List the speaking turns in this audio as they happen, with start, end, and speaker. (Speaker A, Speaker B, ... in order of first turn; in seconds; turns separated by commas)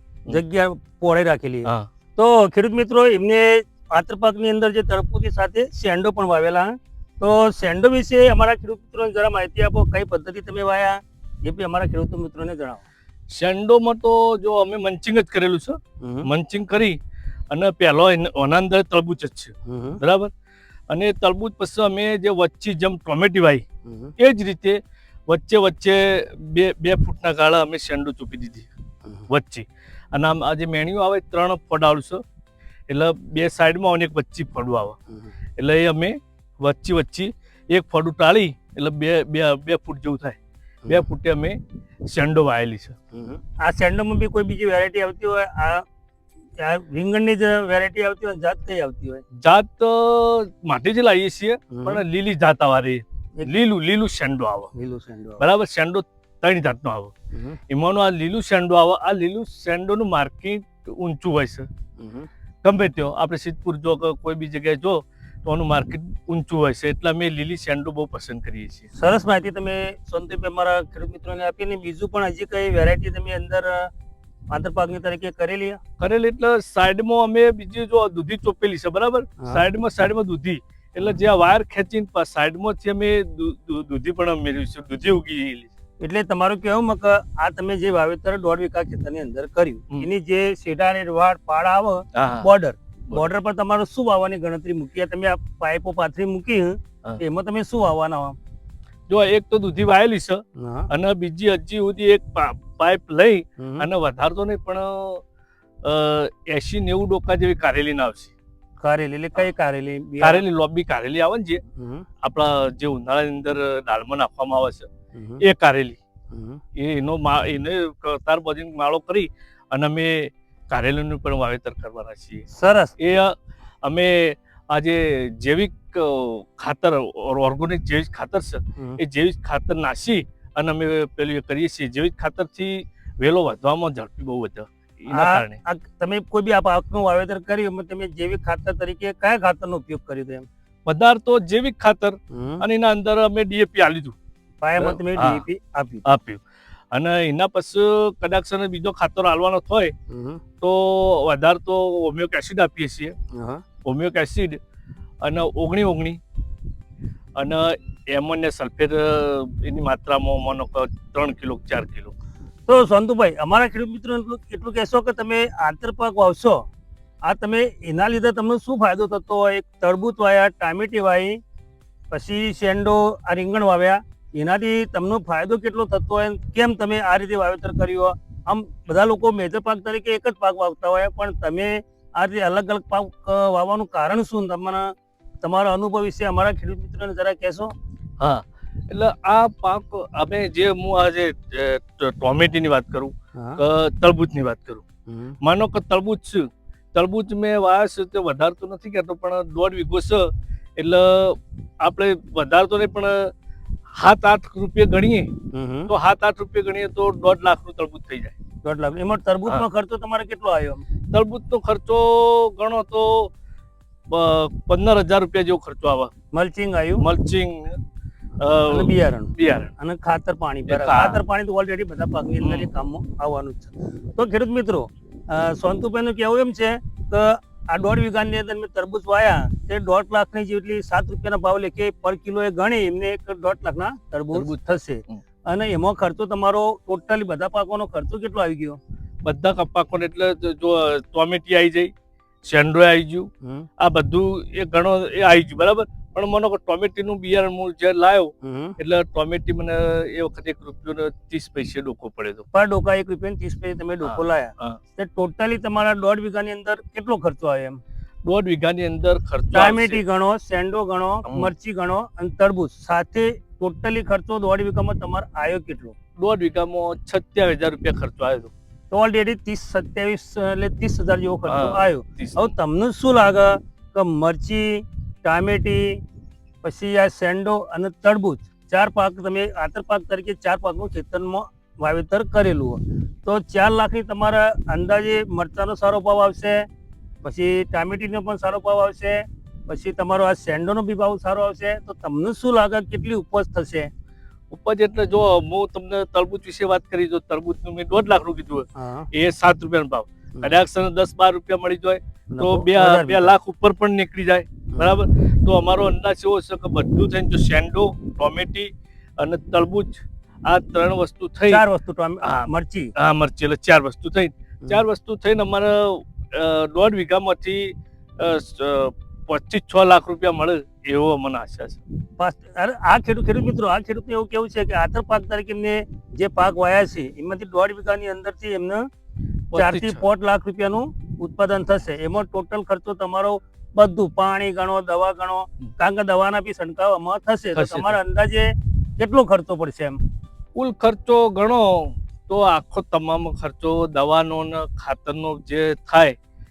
Speaker A: 0.3-12.8, Speaker B: 13.3-17.0, Speaker A: 16.0-16.3, Speaker B: 17.5-20.3, Speaker A: 19.7-20.0, Speaker B: 20.9-23.6, Speaker A: 23.9-24.1, Speaker B: 24.2-28.7, Speaker B: 29.3-32.2, Speaker B: 32.9-35.0, Speaker B: 35.6-41.6, Speaker B: 42.1-43.0, Speaker A: 43.1-45.8, Speaker A: 46.6-49.2, Speaker B: 49.4-54.7, Speaker A: 51.7-52.0, Speaker A: 54.7-55.4, Speaker B: 55.4-57.1, Speaker A: 57.3-57.6, Speaker B: 57.7-61.7, Speaker A: 62.0-62.3, Speaker B: 62.6-68.9, Speaker A: 68.9-73.9, Speaker A: 74.5-75.8, Speaker B: 76.0-85.7, Speaker A: 86.0-98.4, Speaker B: 92.2-92.5, Speaker B: 99.1-105.2, Speaker A: 100.6-100.9, Speaker A: 103.6-103.9, Speaker B: 105.8-108.3, Speaker A: 108.8-110.5, Speaker B: 110.2-111.6, Speaker A: 111.8-112.1, Speaker B: 112.2-114.9, Speaker A: 115.1-115.4, Speaker B: 115.4-116.0, Speaker A: 116.3-116.6, Speaker B: 116.8-122.5, Speaker A: 122.5-123.0, Speaker B: 123.0-135.6, Speaker A: 135.1-140.5, Speaker B: 140.8-144.2, Speaker A: 142.3-142.6, Speaker A: 144.6-146.1, Speaker B: 144.8-145.4, Speaker B: 146.1-149.9, Speaker A: 150.1-150.4, Speaker B: 150.6-153.2, Speaker A: 153.3-153.6, Speaker B: 153.8-154.6, Speaker B: 155.2-156.2, Speaker B: 157.4-162.1, Speaker A: 162.7-166.7, Speaker A: 167.2-171.4, Speaker A: 172.1-187.7, Speaker B: 188.2-194.8, Speaker A: 193.4-193.6, Speaker A: 195.1-195.4, Speaker B: 195.4-203.3, Speaker B: 203.9-205.3, Speaker A: 205.5-205.9, Speaker B: 205.9-208.3, Speaker A: 208.6-210.8, Speaker B: 211.1-213.3, Speaker B: 214.1-216.1, Speaker A: 216.3-217.1, Speaker B: 217.0-217.8, Speaker B: 218.4-219.7, Speaker A: 218.7-238.8, Speaker B: 220.7-221.2, Speaker B: 222.4-222.7, Speaker B: 234.3-234.6, Speaker B: 239.2-241.9, Speaker B: 242.4-252.5, Speaker A: 248.4-248.8, Speaker A: 252.5-257.8, Speaker B: 254.0-254.8, Speaker B: 258.2-260.0, Speaker A: 259.5-265.9, Speaker B: 266.2-268.5, Speaker A: 268.9-276.0, Speaker B: 271.5-272.5, Speaker A: 276.6-286.7, Speaker A: 287.2-293.9, Speaker B: 294.5-311.6, Speaker A: 298.8-299.1, Speaker A: 302.3-303.4, Speaker A: 304.7-305.0, Speaker A: 311.5-312.9, Speaker B: 312.2-321.8, Speaker A: 322.2-328.9, Speaker B: 329.5-330.0, Speaker A: 329.6-340.0, Speaker B: 337.6-338.0, Speaker B: 340.6-346.2